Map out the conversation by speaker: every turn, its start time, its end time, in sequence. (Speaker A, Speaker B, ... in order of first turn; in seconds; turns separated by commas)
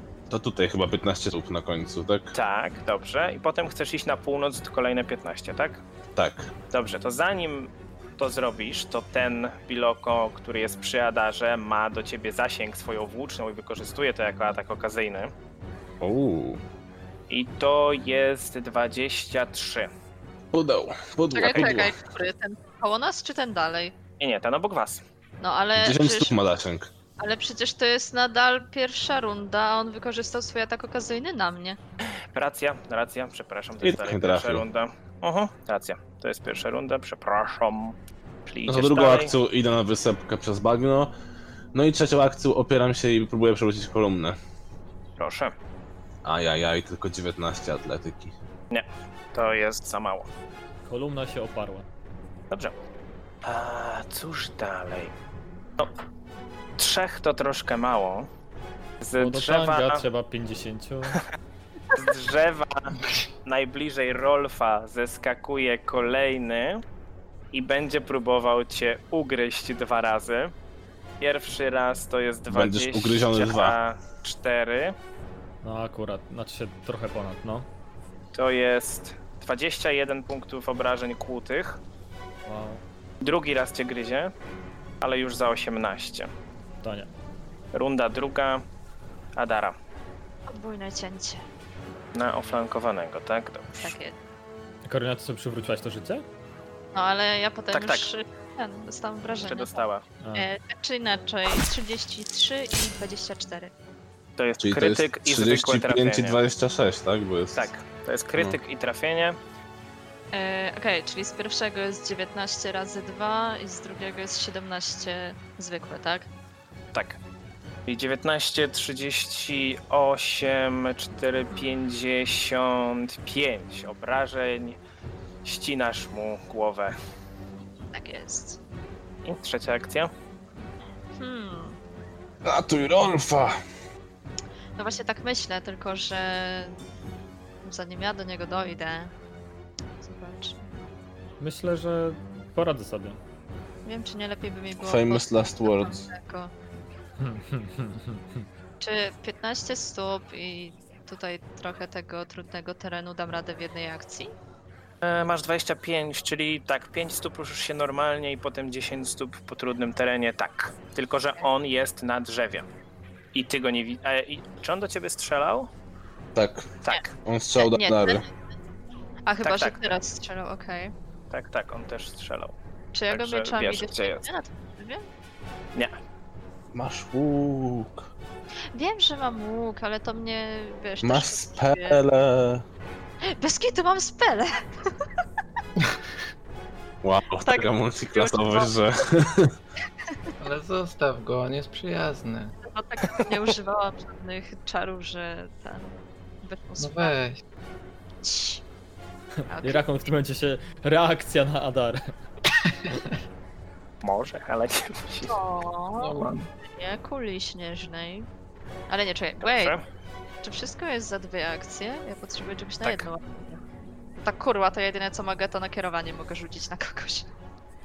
Speaker A: 0.3-2.3, Speaker B: 2.3-5.8, Speaker A: 6.2-6.5, Speaker B: 6.7-15.3, Speaker A: 16.0-16.6, Speaker B: 17.3-19.9, Speaker A: 20.5-21.9, Speaker C: 21.3-23.9, Speaker B: 24.2-25.0, Speaker C: 25.4-26.4, Speaker A: 25.8-26.9, Speaker C: 27.2-31.8, Speaker B: 32.3-38.0, Speaker A: 33.8-34.6, Speaker B: 38.5-39.3, Speaker A: 38.7-41.1, Speaker A: 41.7-44.4, Speaker B: 45.2-45.5, Speaker A: 46.2-48.3, Speaker B: 48.7-50.3, Speaker D: 50.8-51.9, Speaker B: 53.4-55.1, Speaker B: 56.8-58.3, Speaker B: 59.0-60.0, Speaker D: 59.2-61.2, Speaker B: 61.9-66.8, Speaker B: 67.5-70.5, Speaker B: 71.2-74.9, Speaker A: 72.5-73.7, Speaker D: 75.6-77.7, Speaker B: 78.3-81.8, Speaker D: 82.5-82.8, Speaker B: 83.2-84.3, Speaker B: 85.0-86.3, Speaker D: 86.8-87.1, Speaker B: 87.7-88.6, Speaker B: 89.3-89.8, Speaker C: 90.5-91.4, Speaker B: 92.1-94.0, Speaker C: 93.8-94.2, Speaker D: 94.8-96.2, Speaker C: 96.9-99.8, Speaker B: 97.7-98.1, Speaker B: 99.4-100.0, Speaker D: 100.2-100.5, Speaker C: 100.3-103.7, Speaker B: 104.4-106.4, Speaker A: 104.6-107.7, Speaker B: 107.5-109.4, Speaker C: 110.3-116.3, Speaker B: 116.9-117.2, Speaker B: 117.9-124.8, Speaker C: 121.5-121.8, Speaker B: 125.4-126.9, Speaker C: 127.9-128.6, Speaker B: 129.2-130.1, Speaker C: 131.2-131.8, Speaker A: 132.4-133.6, Speaker C: 134.8-136.8, Speaker C: 137.6-139.1, Speaker C: 140.0-140.7, Speaker D: 141.4-143.2, Speaker C: 143.8-146.5, Speaker A: 144.8-146.0, Speaker D: 147.2-148.5, Speaker C: 148.8-154.3, Speaker B: 155.0-162.7, Speaker B: 163.3-165.7, Speaker A: 166.3-168.2, Speaker B: 166.8-167.1, Speaker C: 167.6-168.3, Speaker C: 169.2-170.9, Speaker B: 169.4-169.9, Speaker B: 171.3-172.5, Speaker C: 172.9-175.0, Speaker B: 173.1-174.3, Speaker A: 176.7-178.0, Speaker C: 178.7-182.0, Speaker A: 181.0-182.6, Speaker C: 183.3-184.9, Speaker A: 187.0-189.5, Speaker C: 187.4-188.7, Speaker E: 190.4-192.5, Speaker C: 192.7-197.1, Speaker E: 196.8-197.4, Speaker C: 198.2-198.6, Speaker D: 199.5-202.1, Speaker C: 199.5-199.9, Speaker B: 204.0-205.3, Speaker C: 205.2-208.3, Speaker E: 206.0-206.5, Speaker C: 208.9-209.8, Speaker B: 209.4-209.8, Speaker C: 210.4-213.6, Speaker B: 212.8-213.1, Speaker C: 214.2-217.3